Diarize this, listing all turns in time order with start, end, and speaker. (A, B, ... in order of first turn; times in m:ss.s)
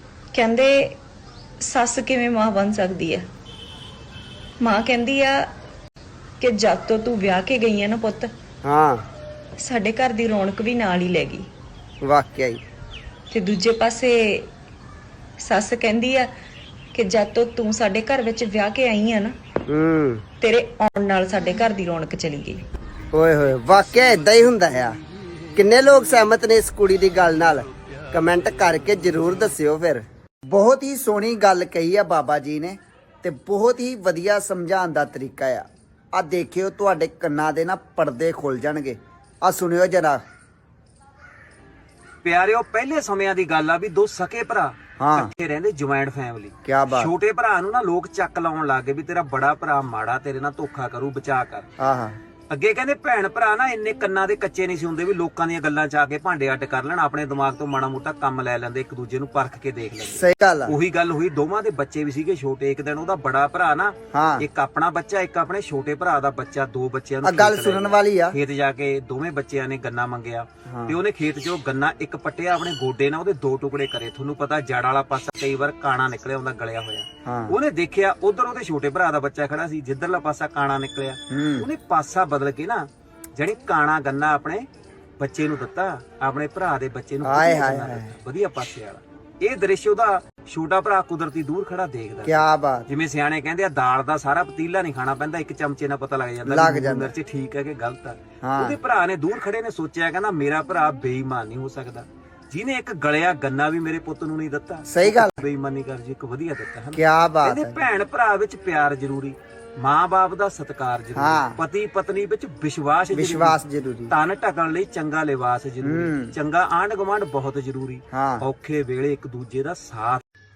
0:00.3-0:01.0 A
0:01.6-0:03.3 A
0:04.6-0:05.5 A
0:06.4-0:08.3 A
0:08.6-0:09.0 B
0:09.6-0:11.5 A
0:12.0-0:12.6 B
0:13.3-0:14.5 A
0:15.4-0:16.3 A
0:16.9-0:19.4 A
0:19.7-0:20.2 B
0:20.4-0:22.6 A
0:23.1-0:25.0 B
0:25.6-0:40.2 B
0:42.2-0:51.6 C
0:45.0-0:45.3 B
0:46.6-0:47.1 B
0:51.8-0:52.2 B
0:52.5-1:22.8 C
1:00.0-1:00.8 B
1:04.1-1:04.4 B
1:07.2-1:08.4 B
1:10.7-1:11.0 B
1:17.3-1:17.5 B
1:21.3-1:21.7 B
1:23.4-1:24.6 C
1:25.2-1:53.6 C
1:27.3-1:28.1 B
1:32.2-1:32.9 B
1:36.5-1:37.1 B
1:38.4-1:38.8 B
1:44.9-1:45.4 B
1:46.9-1:47.8 B
1:51.2-1:51.6 B
1:53.1-1:54.1 B
1:54.1-2:00.2 C
1:55.8-1:56.3 B
1:58.1-1:58.4 B